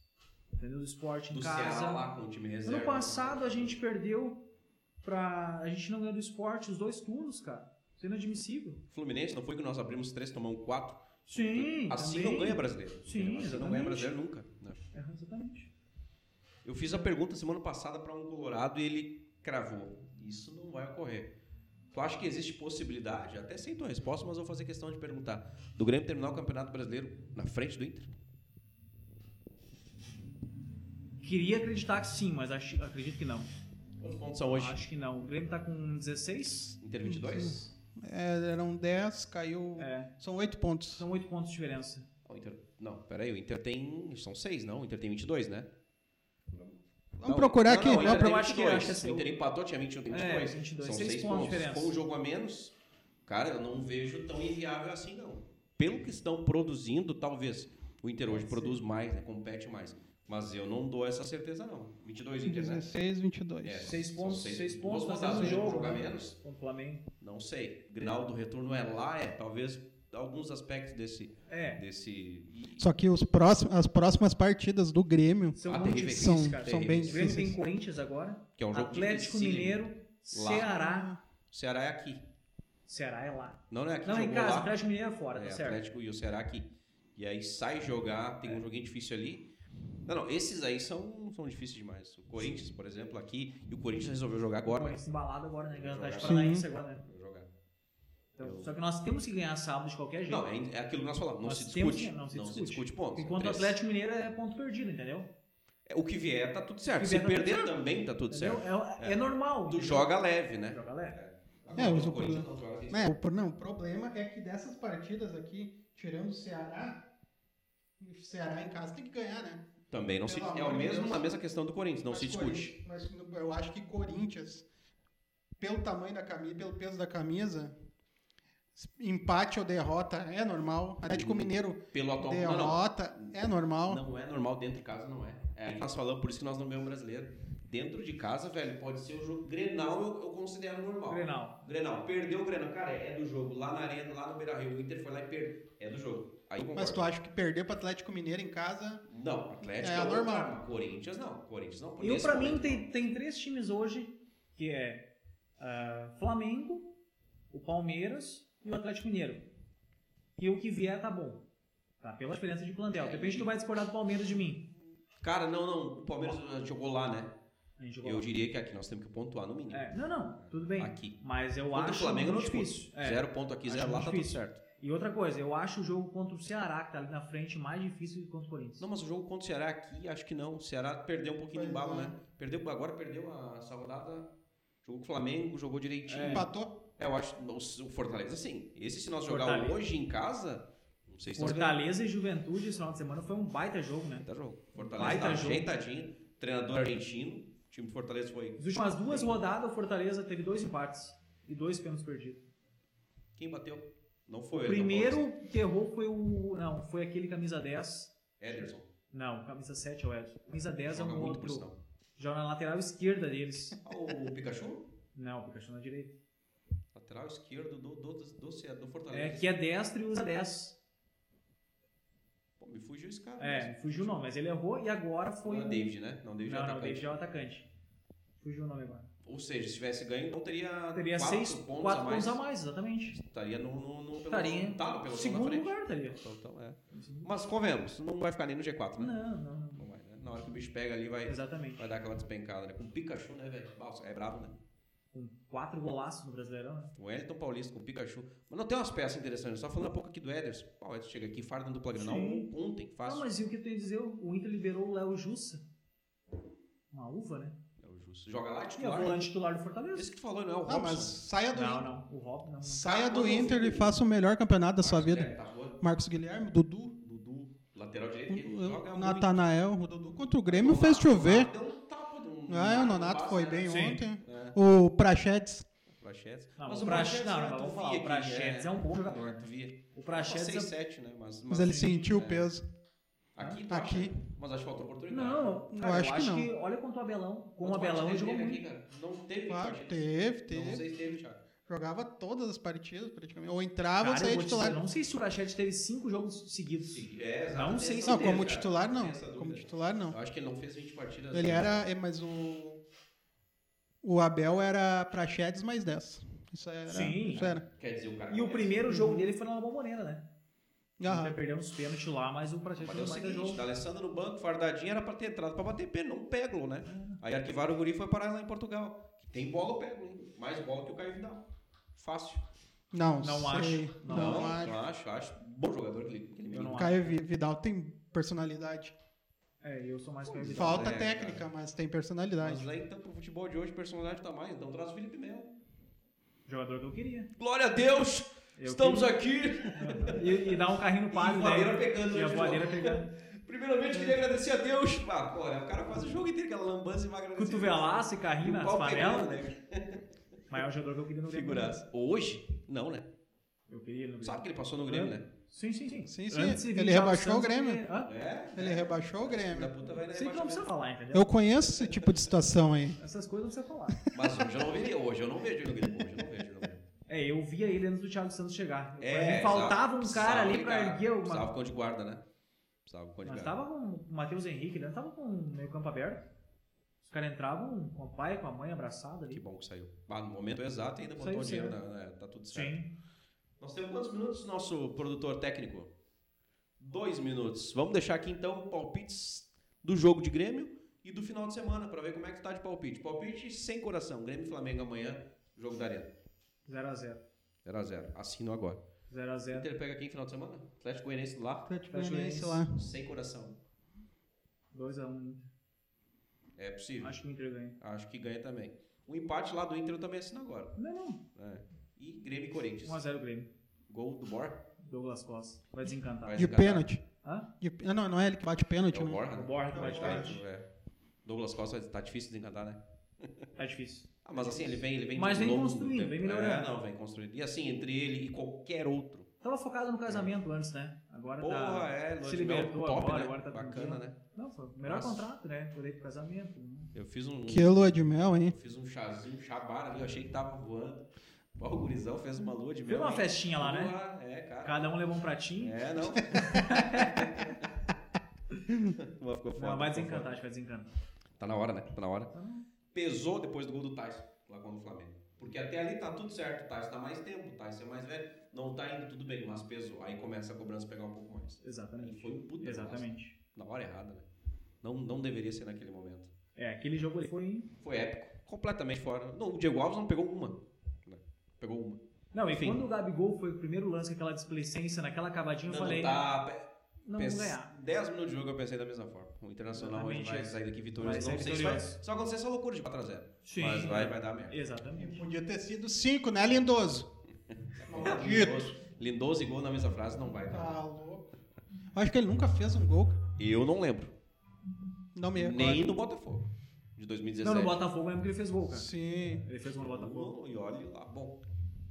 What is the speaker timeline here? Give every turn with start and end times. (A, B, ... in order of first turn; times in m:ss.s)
0:00.6-0:02.0 A
0:01.3-0:03.8 B
0:02.6-0:04.4 A
0:05.0-0:08.8 A
0:08.9-0:14.8 B
0:11.3-0:14.1 A
0:14.9-0:15.7 A
0:16.6-0:21.3 B
0:21.9-0:28.1 B
0:31.2-0:33.5 A
0:34.0-0:34.8 B
0:34.6-0:36.8 A
0:36.8-0:37.7 B
0:37.0-0:41.0 C
0:39.8-0:40.1 A
0:41.0-0:42.1 A
0:42.2-0:45.7 B
0:46.5-0:52.7 B
0:47.2-0:48.2 C
0:47.8-0:49.3 A
0:50.1-0:51.9 A
0:53.3-1:02.9 B
0:58.3-0:58.8 A
1:02.4-1:03.9 C
1:03.6-1:06.4 B
1:03.8-1:07.0 A
1:05.3-1:06.0 C
1:07.2-1:12.9 B
1:11.5-1:11.8 A
1:12.8-1:17.6 C
1:15.6-1:21.1 A
1:15.6-1:17.3 B
1:18.6-1:20.7 B
1:20.6-1:21.2 C
1:21.5-1:22.2 B
1:22.9-1:25.8 A
1:23.7-1:24.8 B
1:25.3-1:29.5 B
1:30.0-1:35.0 B
1:34.7-1:37.0 A
1:35.7-1:37.5 B
1:36.2-1:36.6 C
1:38.4-1:40.4 A
1:38.4-1:38.7 B
1:40.3-1:43.8 B
1:41.4-1:45.3 A
1:45.9-1:53.2 B
1:47.0-1:47.7 A
1:48.3-1:50.1 A
1:50.7-1:51.2 A
1:51.7-1:57.0 C
1:58.0-1:59.7 C
1:59.9-2:02.8 B
2:00.2-2:01.3 C
2:02.1-2:04.7 C
2:05.6-2:07.7 C
2:08.8-2:14.0 C
2:11.1-2:13.4 B
2:13.9-2:27.0 B
2:21.1-2:21.6 A
2:26.7-2:29.0 C
2:29.1-2:32.9 B
2:29.8-2:30.6 C
2:32.0-2:35.1 A
2:35.6-2:36.9 A
2:37.5-2:39.5 A
2:40.4-2:41.4 A
2:42.0-2:44.6 A
2:42.9-2:43.5 B
2:45.2-2:47.3 B
2:47.8-2:48.3 A
2:48.0-2:51.2 B
2:49.7-2:58.9 A
2:51.7-2:54.6 B
2:58.8-3:04.3 B
3:01.5-3:02.2 C
3:04.8-3:11.8 B
3:06.1-3:06.5 A
3:06.2-3:06.7 C
3:09.3-3:09.8 A
3:11.4-3:15.7 A
3:14.2-3:19.4 B
3:18.6-3:22.4 A
3:23.4-3:25.3 B
3:24.5-3:31.7 A
3:28.4-3:28.9 B
3:30.9-3:31.8 B
3:32.2-3:33.8 A
3:33.8-3:34.9 B
3:35.2-3:36.2 A
3:36.9-3:39.5 B
3:39.1-3:40.8 A
3:42.6-3:44.2 B
3:43.4-3:45.9 A
3:45.4-3:47.1 B
3:46.4-3:47.7 A
3:48.4-3:49.1 A
3:49.2-3:52.4 B
3:51.0-3:53.2 A
3:53.1-3:59.2 B
3:54.3-3:56.2 A
3:56.9-3:57.3 A
3:59.0-3:59.8 A
3:59.8-4:04.6 B
4:01.3-4:01.8 A
4:05.1-4:06.9 A
4:07.0-4:13.3 B
4:12.0-4:12.5 A
4:13.0-4:15.6 A
4:16.9-4:17.6 A
4:17.8-4:19.3 B
4:18.8-4:20.1 A
4:19.9-4:21.2 B
4:20.7-4:21.9 C
4:21.5-4:23.0 A
4:22.6-4:27.0 C
4:22.8-4:24.0 B
4:24.8-4:25.8 B
4:27.0-4:29.4 B
4:28.3-4:31.5 C
4:30.5-4:34.6 B
4:32.5-4:35.7 C
4:33.7-4:34.0 A
4:35.9-4:42.5 B
4:36.6-4:40.7 A
4:41.5-4:42.6 C
4:43.4-4:45.6 B
4:43.7-4:44.2 C
4:45.1-4:48.6 A
4:45.7-4:46.5 C
4:47.6-4:51.4 B
4:49.5-4:50.9 C
4:51.7-4:54.8 C
4:54.0-4:58.4 A
4:56.8-5:01.8 B
4:58.1-5:00.2 C
5:01.3-5:02.8 C
5:04.0-5:07.6 C
5:06.9-5:07.5 A
5:07.3-5:09.2 B
5:08.3-5:10.2 A
5:11.0-5:11.4 C
5:11.0-5:13.6 A
5:12.8-5:21.4 B
5:16.9-5:17.2 A
5:22.0-5:22.4 B
5:22.9-5:24.8 C
5:23.2-5:24.6 A
5:24.1-5:27.0 B
5:26.5-5:27.0 A
5:26.7-5:29.0 C
5:29.6-5:30.9 A
5:30.3-5:31.5 B
5:30.5-5:32.7 C
5:32.4-5:35.5 B
5:36.5-5:37.3 A
5:37.4-5:40.6 B
5:38.6-5:39.2 A
5:39.7-5:43.1 A
5:41.1-5:50.0 B
5:47.4-5:49.3 A
5:50.5-5:51.8 A
5:51.3-5:53.1 B
5:53.7-5:58.1 A
5:54.2-5:55.3 B
5:56.1-5:57.8 C
5:58.0-6:00.7 B
5:58.6-5:59.7 C
6:00.1-6:01.3 A
6:01.1-6:03.0 C
6:01.7-6:02.1 B
6:03.0-6:04.1 A
6:04.1-6:06.8 B
6:07.1-6:11.5 A
6:09.0-6:12.2 B
6:12.9-6:13.6 B
6:13.2-6:16.3 A
6:17.1-6:19.4 A
6:19.3-6:22.8 B
6:21.2-6:21.8 A
6:22.5-6:22.9 A
6:23.6-6:25.9 B
6:26.8-6:36.1 B
6:36.7-6:37.2 A
6:37.6-6:38.8 B
6:39.1-6:39.7 A
6:39.5-6:41.7 B
6:41.7-6:42.8 C
6:41.9-6:42.6 A
6:42.7-6:43.6 B
6:44.7-6:45.5 A
6:46.6-6:47.2 B
6:47.0-6:47.8 A
6:47.8-6:50.8 B
6:50.8-6:51.2 A
6:51.4-6:53.0 B
6:52.8-6:53.5 A
6:53.9-6:54.6 B
6:54.8-6:56.4 A
6:56.2-6:56.9 B
6:56.4-6:57.0 C
6:57.2-6:57.5 A
6:57.6-7:00.4 C
6:58.9-7:00.7 B
6:59.3-7:00.4 A
7:01.2-7:03.5 B
7:03.6-7:06.7 A
7:04.2-7:09.3 B
7:09.4-7:16.9 A
7:10.1-7:10.3 B
7:11.4-7:14.2 B
7:14.8-7:15.2 B
7:16.9-7:24.9 B
7:17.5-7:18.6 C
7:22.9-7:24.0 A
7:24.6-7:25.8 A
7:25.6-7:27.7 B
7:26.5-7:27.4 A
7:28.7-7:30.4 B
7:29.6-7:30.9 A
7:31.4-7:32.3 B
7:32.3-7:32.6 A
7:32.9-7:44.3 B
7:41.6-7:43.4 A
7:44.8-7:46.3 B
7:46.6-7:47.7 A
7:47.8-7:52.0 B
7:52.3-7:56.2 A
7:52.5-7:52.8 B
7:55.7-8:04.6 B
7:57.1-7:57.7 A
7:59.7-8:02.0 A
8:03.4-8:05.2 A
8:05.0-8:07.1 C
8:07.7-8:10.8 B
8:07.9-8:08.8 C
8:10.5-8:11.3 C
8:11.9-8:13.2 C
8:13.4-8:14.1 B
8:15.2-8:16.0 C
8:15.4-8:17.8 B
8:17.4-8:20.3 A
8:18.7-8:19.4 C
8:19.8-8:21.4 B